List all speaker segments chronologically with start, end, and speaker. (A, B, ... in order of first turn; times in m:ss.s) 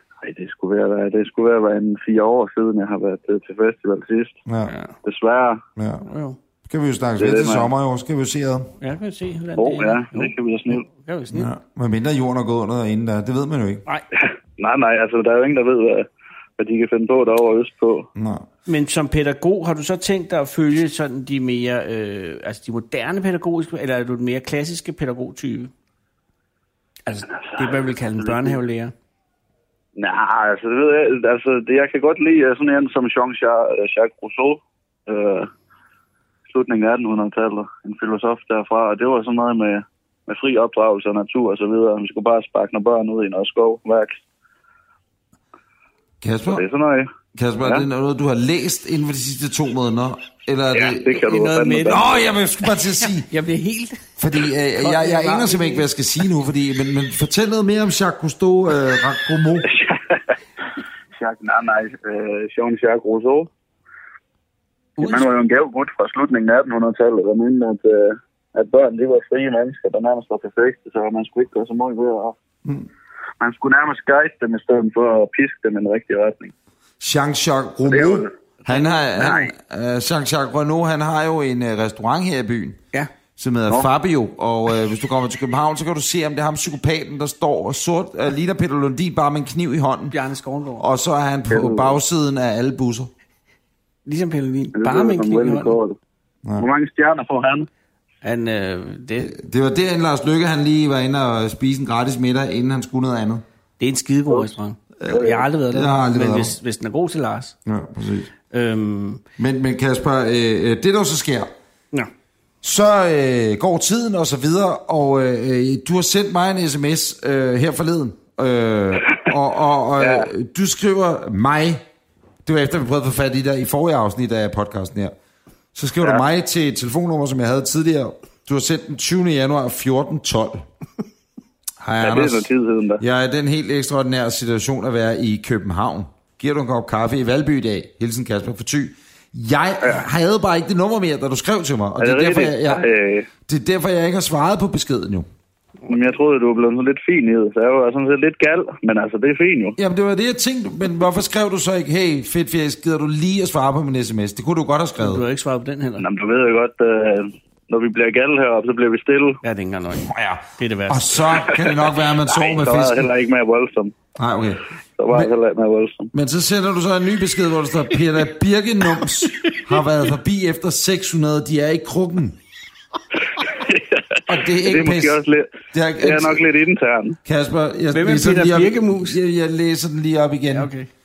0:00.2-0:04.4 A
0:04.4-0:04.7 B
0:04.7-0:05.0 C
0:05.0-0:05.6 A
0:05.8-0:06.0 B
0:06.0-0:06.4 C
0:06.7-0:08.7 B
0:07.2-0:07.7 A
0:08.8-0:11.5 C
0:09.6-0:10.8 A
0:11.3-0:13.8 B
0:14.2-0:16.1 A
0:16.6-0:18.1 A
0:18.1-0:18.4 B
0:18.7-0:25.7 C
0:27.0-0:28.9 C
0:27.4-0:28.6 A
0:30.0-0:35.5 A
0:36.5-0:44.2 A
0:46.2-0:46.6 B
0:46.5-0:47.1 A
0:47.3-0:51.1 B
0:47.6-0:47.9 A
0:50.7-0:52.2 A
0:51.1-0:54.1 C
0:51.8-0:53.3 B
0:54.2-0:59.7 B
0:54.8-0:55.9 C
0:59.6-1:00.3 A
1:01.2-1:03.5 A
1:05.0-1:05.3 C
1:05.0-1:12.4 A
1:13.4-1:16.5 A
1:17.0-1:22.8 B
1:17.9-1:18.3 A
1:19.2-1:19.5 A
1:23.4-1:30.1 B
1:30.1-1:30.8 C
1:30.8-1:33.1 B
1:31.5-1:32.0 A
1:34.0-1:35.8 C
1:34.7-1:36.0 A
1:36.6-1:37.7 A
1:38.2-1:39.4 C
1:39.2-1:43.4 B
1:43.8-1:47.5 C
1:45.0-1:46.6 B
1:45.1-1:45.4 A
1:47.6-1:48.3 B
1:48.5-1:49.2 C
1:49.4-1:51.5 B
1:52.6-2:01.8 B
2:00.0-2:00.3 A
2:02.4-2:05.1 B
2:05.7-2:10.6 B
2:11.8-2:12.5 B
2:12.0-2:13.0 A
2:13.0-2:22.9 B
2:22.0-2:23.3 A
2:23.5-2:25.3 B
2:25.9-2:29.8 A
2:29.8-2:35.2 B
2:35.0-2:36.0 C
2:36.0-2:39.4 A
2:39.4-2:41.2 C
2:40.0-2:43.1 B
2:41.4-2:44.0 A
2:44.2-2:45.3 B
2:45.0-2:46.1 A
2:46.1-2:52.4 B
2:49.2-2:49.6 C
2:53.5-2:57.2 A
2:54.3-2:55.2 B
2:55.7-2:56.4 B
2:57.2-3:00.7 B
2:57.9-2:59.2 C
3:00.5-3:00.9 C